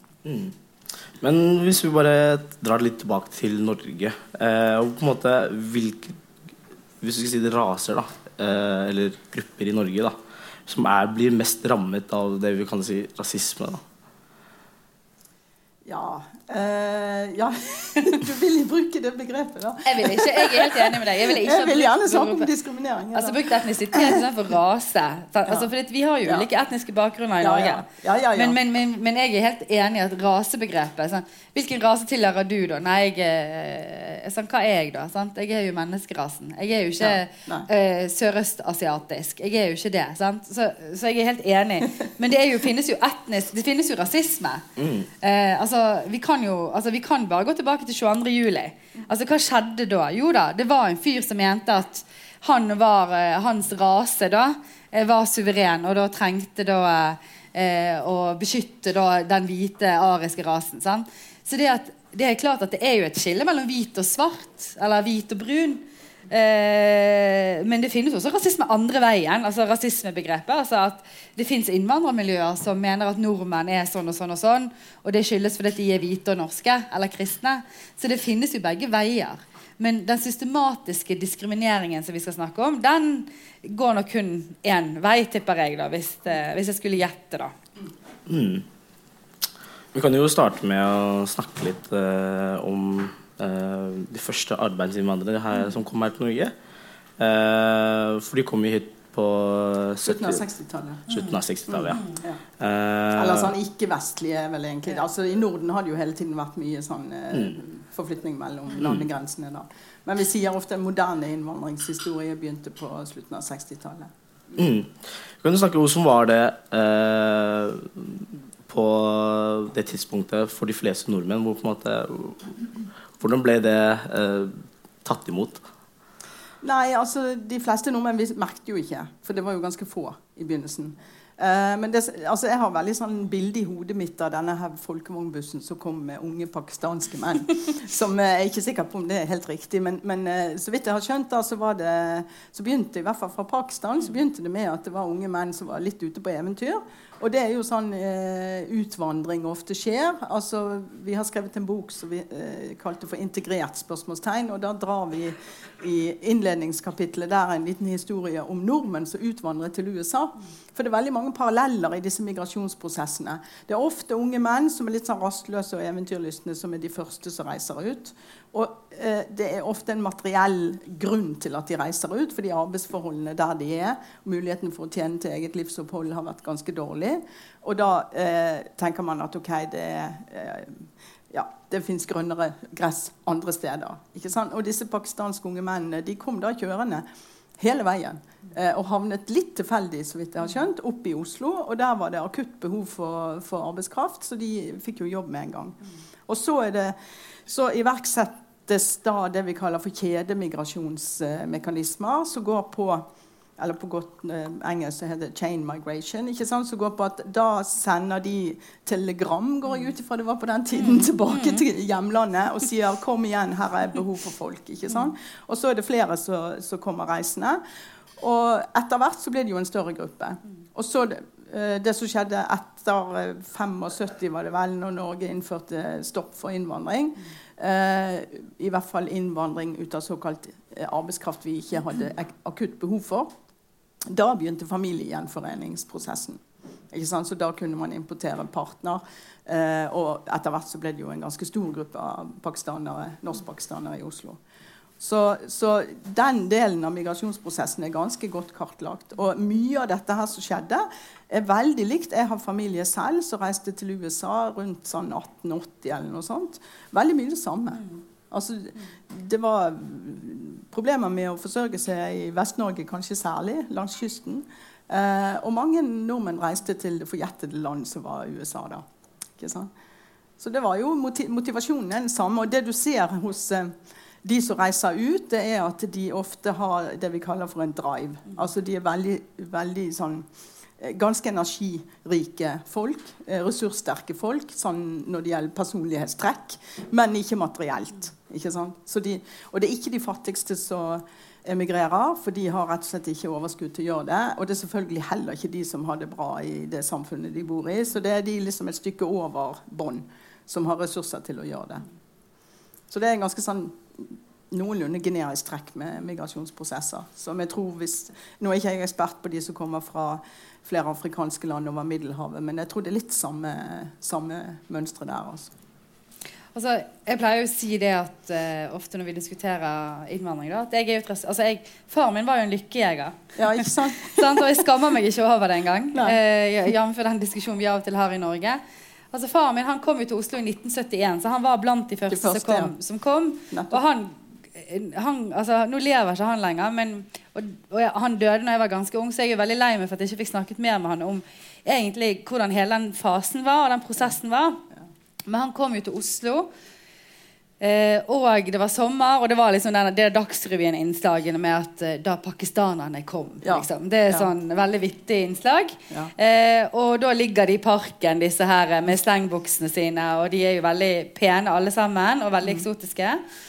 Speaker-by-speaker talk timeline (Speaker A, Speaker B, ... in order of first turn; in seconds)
Speaker A: 0.2-0.5, 1.2-6.2, 7.0-10.2, 10.7-13.8, 44.8-45.1, 88.3-88.7, 89.9-96.5, 97.2-100.4, 101.1-102.1, 102.6-103.5, 114.6-125.6
Speaker B: 15.8-24.2, 27.4-28.6, 37.0-37.7, 100.0-101.1, 101.7-102.4, 103.2-114.5, 126.6-187.1, 187.6-217.6, 218.2-233.3, 234.1-244.4, 245.0-268.9, 269.4-269.7, 270.4-280.3, 280.8-301.9, 302.9-315.5, 323.4-324.6, 332.1-332.8, 333.5-333.8, 353.4-354.3
Speaker C: 19.8-22.5, 23.1-27.9, 28.4-44.6, 45.2-87.5, 210.9-211.6, 316.6-328.6, 329.1-344.6, 345.3-346.5, 347.6-363.2